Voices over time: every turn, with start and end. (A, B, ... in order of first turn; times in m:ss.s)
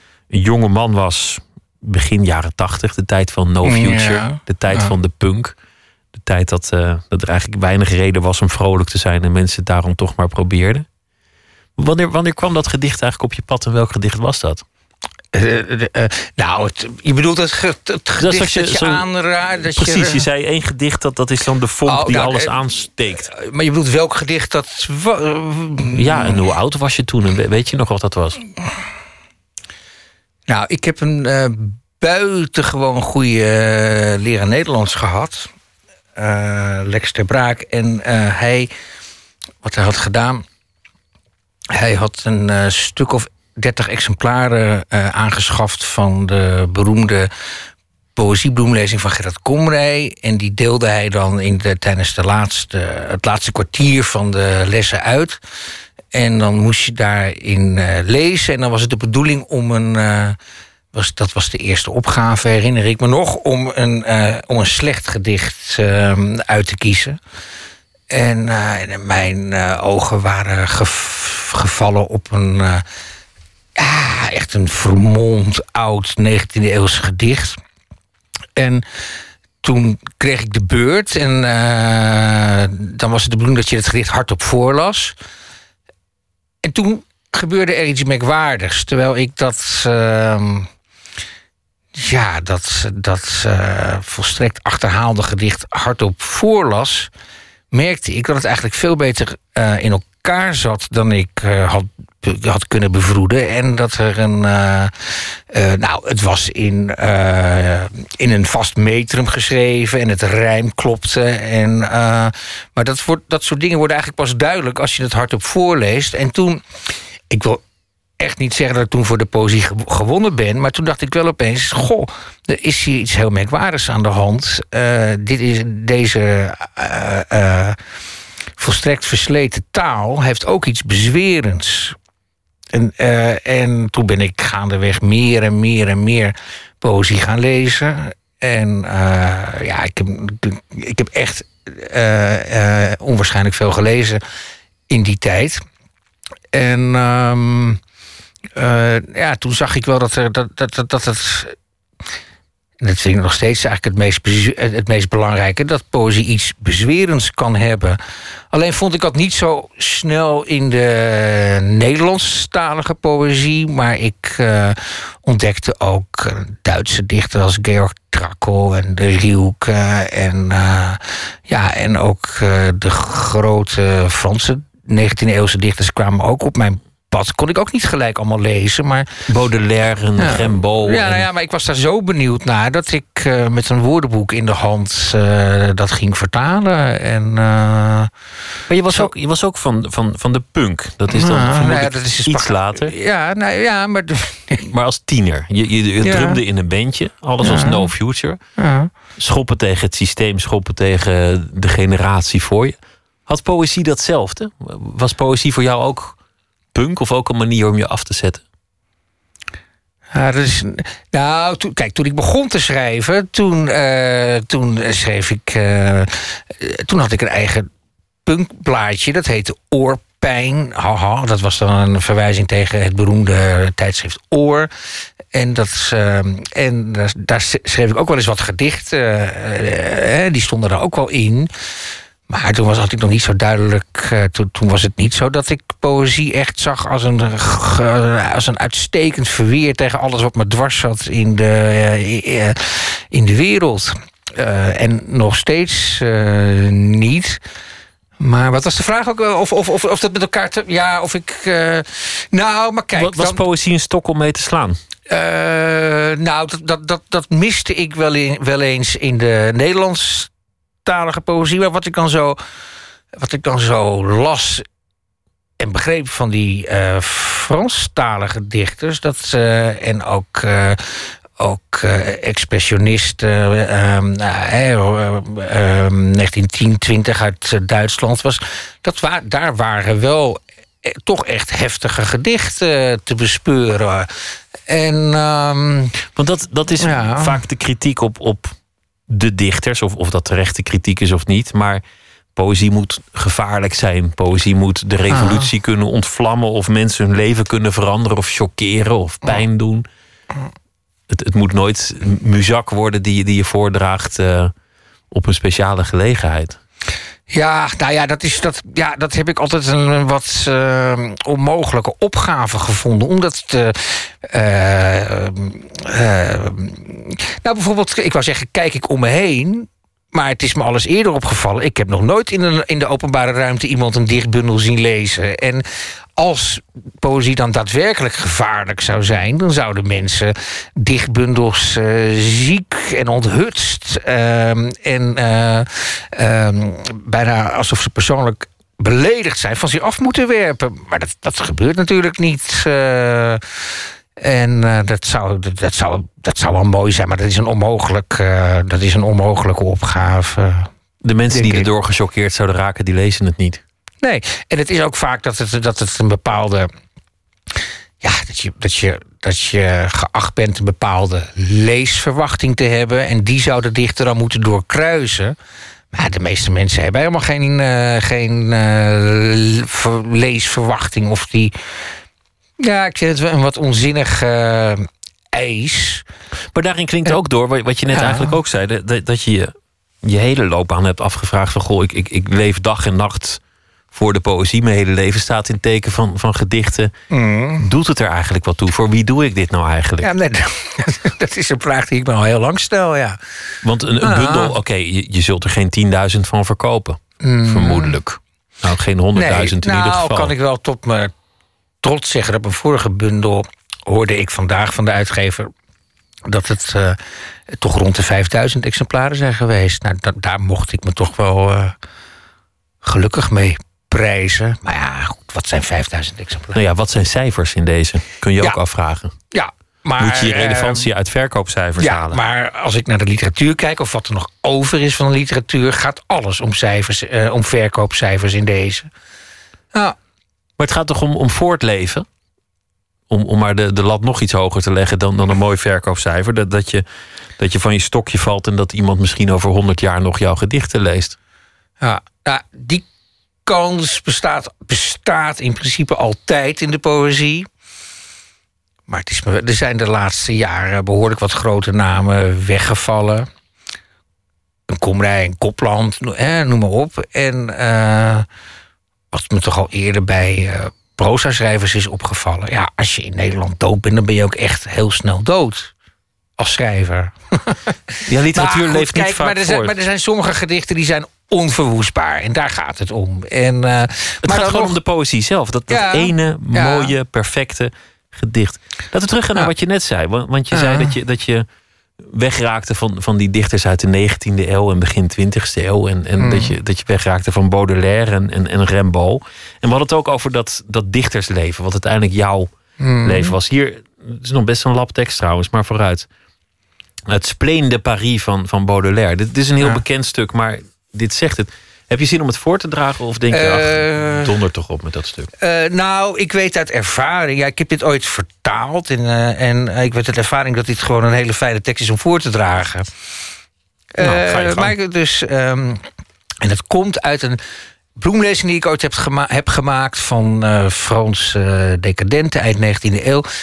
0:00.3-0:05.5 A
0:03.6-0:04.9 B
0:06.1-0:10.9 A
0:11.8-0:14.6 A
0:15.3-0:20.2 B
0:18.2-0:19.1 A
0:19.6-0:23.3 A
0:21.9-0:26.4 B
0:25.9-0:28.4 A
0:30.5-0:35.5 B
0:36.2-0:38.7 B
0:39.6-0:40.4 B
0:41.7-0:47.3 B
0:48.2-0:55.4 B
0:56.1-1:00.4 B
1:00.9-1:07.2 B
1:08.1-1:12.8 B
1:13.8-1:17.6 B
1:18.6-1:18.8 B
1:19.6-1:25.1 B
1:26.6-1:30.7 B
1:32.0-1:37.1 B
1:37.7-1:56.6 B
1:57.3-1:57.6 B
1:58.2-2:07.8 B
2:08.6-2:12.0 B
2:12.7-2:24.2 B
2:24.9-2:25.6 B
2:26.5-2:27.8 B
2:28.6-2:31.6 B
2:32.8-2:38.0 B
2:38.5-2:59.2 B
2:59.3-3:01.3 A
3:00.2-3:08.1 B
3:08.7-3:12.9 A
3:11.1-3:14.6 B
3:14.6-3:18.4 A
3:16.0-3:16.4 B
3:17.4-3:17.9 B
3:18.6-3:18.9 B
3:19.2-3:26.2 A
3:26.7-3:28.4 A
3:30.1-3:37.7 B
3:38.2-3:44.7 B
3:45.3-3:51.5 B
3:52.3-4:07.4 B
4:08.2-4:13.4 B
4:13.0-4:14.8 A
4:15.1-4:20.3 B
4:20.8-4:22.4 B
4:23.2-4:24.6 B
4:25.6-4:44.1 B
4:44.7-4:46.0 B
4:46.2-4:48.5 A
4:46.8-4:47.4 B
4:49.1-4:51.8 A
4:52.4-4:59.9 A
4:55.1-4:55.5 B
5:01.1-5:04.5 A
5:05.1-5:06.6 A
5:07.3-5:25.6 B
5:26.2-5:43.4 B
5:44.2-5:50.7 B
5:51.0-5:53.6 A
5:51.3-5:51.7 B
5:54.0-5:56.7 B
5:58.0-6:05.4 B
6:05.9-6:11.5 B
6:12.6-6:16.0 B
6:16.5-6:23.4 A
6:17.9-6:18.4 B
6:23.9-6:26.9 A
6:27.1-6:27.6 B
6:27.6-6:30.1 A
6:30.0-6:33.2 B
6:33.6-6:40.3 A
6:34.0-6:34.6 B
6:37.2-6:38.0 B
6:39.1-6:41.1 B
6:41.8-6:45.5 B
6:46.3-6:47.0 B
6:47.5-6:51.8 B
6:52.8-6:56.6 B
6:56.5-6:59.1 A
6:59.3-7:00.9 B
7:00.0-7:02.2 A
7:01.8-7:08.9 B
7:10.6-7:12.1 A
7:13.1-7:16.8 A
7:17.4-7:21.2 A
7:21.8-7:22.8 B
7:23.4-7:27.5 B
7:28.9-7:33.3 B
7:34.7-7:38.2 B
7:39.1-7:45.7 B
7:46.4-7:47.7 B
7:48.1-7:49.8 A
7:48.3-7:54.8 B
7:54.2-8:01.4 A
7:55.7-7:56.9 B
8:00.5-8:00.9 B
8:02.0-8:12.5 A
8:06.2-8:06.5 B
8:12.8-8:13.4 B
8:13.0-8:16.1 A
8:17.1-8:25.3 A
8:23.3-8:24.3 B
8:25.4-8:32.9 B
8:34.0-8:35.8 B
8:34.0-8:34.7 A
8:36.4-8:37.4 B
8:38.0-8:43.2 B